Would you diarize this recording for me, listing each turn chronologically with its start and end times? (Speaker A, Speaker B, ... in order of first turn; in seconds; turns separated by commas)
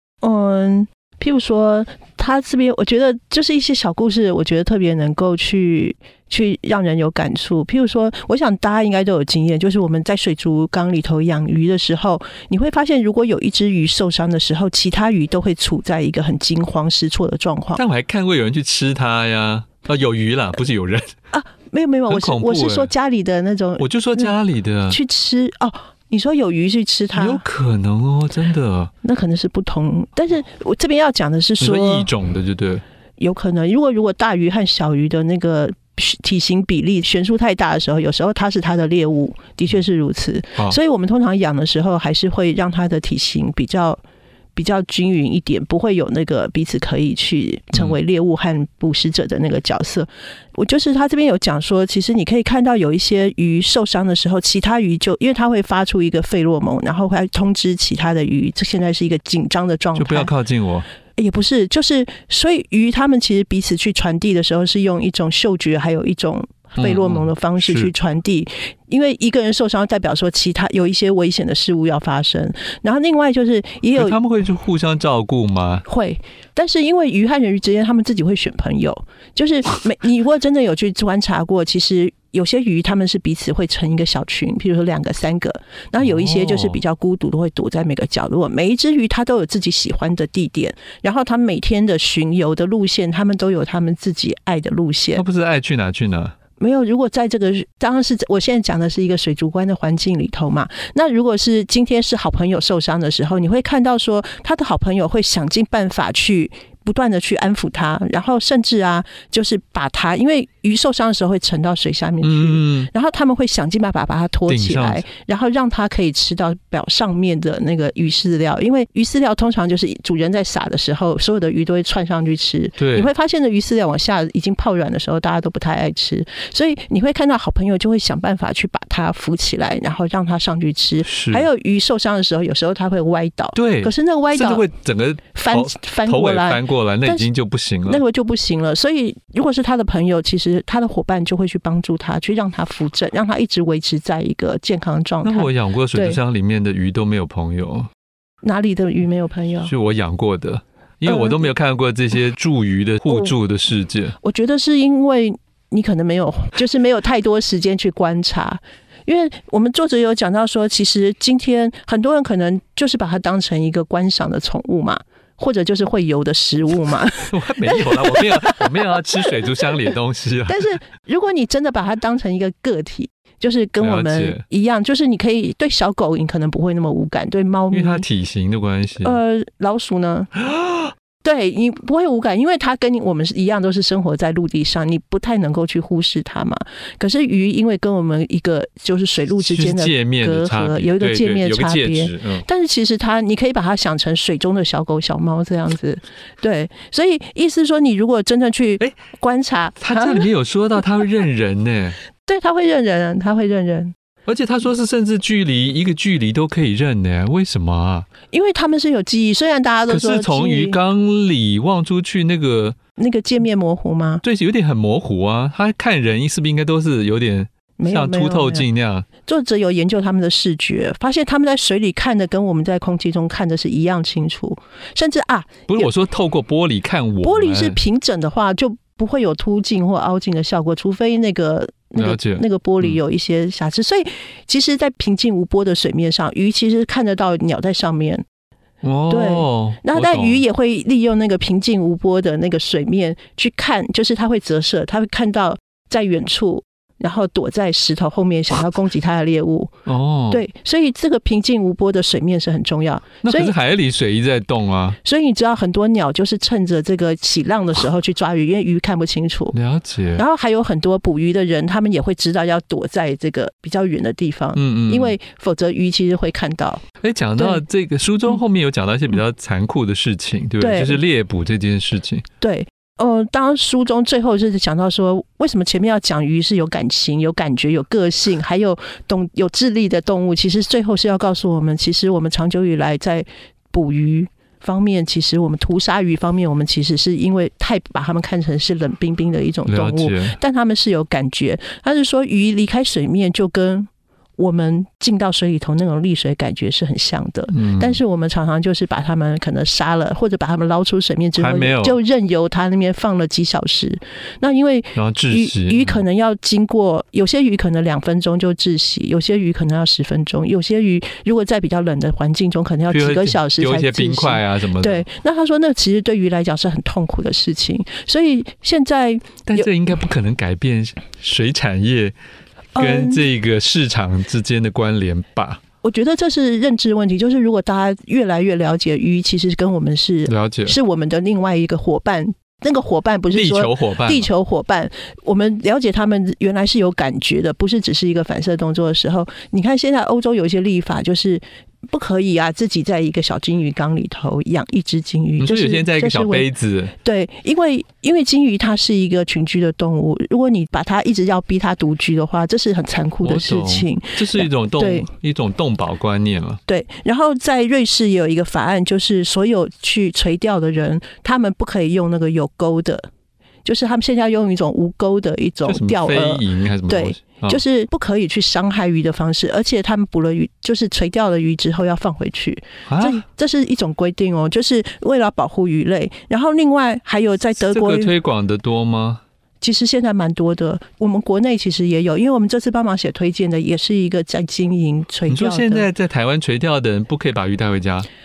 Speaker A: 0.2-17.8, Speaker B: 17.8-21.1, Speaker A: 21.3-24.4, Speaker B: 22.1-22.9, Speaker B: 23.8-25.0, Speaker A: 24.9-27.4, Speaker B: 27.1-28.9, Speaker A: 29.0-32.1, Speaker B: 31.6-32.8, Speaker A: 33.2-44.0, Speaker A: 44.6-60.3, Speaker B: 60.0-60.9, Speaker A: 61.2-74.2, Speaker B: 66.8-67.9, Speaker B: 74.0-75.8, Speaker A: 75.9-95.2, Speaker B: 86.0-86.8, Speaker B: 95.2-96.3, Speaker A: 96.6-134.7, Speaker B: 112.2-112.9, Speaker B: 114.5-115.0, Speaker B: 122.8-123.1, Speaker B: 131.0-131.5, Speaker B: 133.6-138.0, Speaker A: 135.3-137.3, Speaker A: 137.9-146.2, Speaker B: 145.2-147.9, Speaker A: 148.4-149.7, Speaker B: 149.6-154.2, Speaker A: 151.1-151.5, Speaker A: 153.1-153.3, Speaker A: 154.2-169.0, Speaker B: 167.2-170.7, Speaker A: 170.5-178.1, Speaker B: 173.8-174.4, Speaker B: 177.7-179.2, Speaker A: 179.0-180.3, Speaker B: 180.4-180.9, Speaker A: 181.2-200.3, Speaker B: 189.4-192.4, Speaker B: 199.8-202.0, Speaker A: 202.2-203.9, Speaker B: 204.3-208.1, Speaker A: 208.3-210.8, Speaker B: 209.9-212.8, Speaker A: 213.0-214.2, Speaker B: 214.2-219.1, Speaker A: 217.8-218.7, Speaker A: 219.2-225.9, Speaker B: 225.7-227.8, Speaker A: 227.2-238.2, Speaker B: 232.0-233.0, Speaker B: 238.8-240.4, Speaker A: 239.1-249.7, Speaker B: 249.9-250.4, Speaker A: 250.3-253.6, Speaker B: 253.2-255.0, Speaker A: 255.0-259.6, Speaker B: 259.5-260.2, Speaker A: 260.2-266.8, Speaker B: 264.6-265.1, Speaker B: 267.0-272.2, Speaker A: 267.4-267.6, Speaker A: 270.6-271.0, Speaker A: 272.4-319.7, Speaker B: 289.7-290.4, Speaker B: 297.5-298.0, Speaker B: 301.4-302.0, Speaker B: 304.9-306.0, Speaker B: 312.9-315.1, Speaker B: 319.5-322.1, Speaker A: 322.8-323.3, Speaker B: 322.8-325.6, Speaker A: 325.8-346.5, Speaker B: 330.3-330.8, Speaker B: 333.3-334.3, Speaker B: 345.4-346.9, Speaker A: 347.0-355.1, Speaker B: 353.2-356.6, Speaker A: 356.7-363.1, Speaker A: 363.6-378.1, Speaker B: 365.6-367.6, Speaker B: 372.9-373.2, Speaker B: 377.6-379.2, Speaker A: 379.6-385.9, Speaker B: 385.3-388.1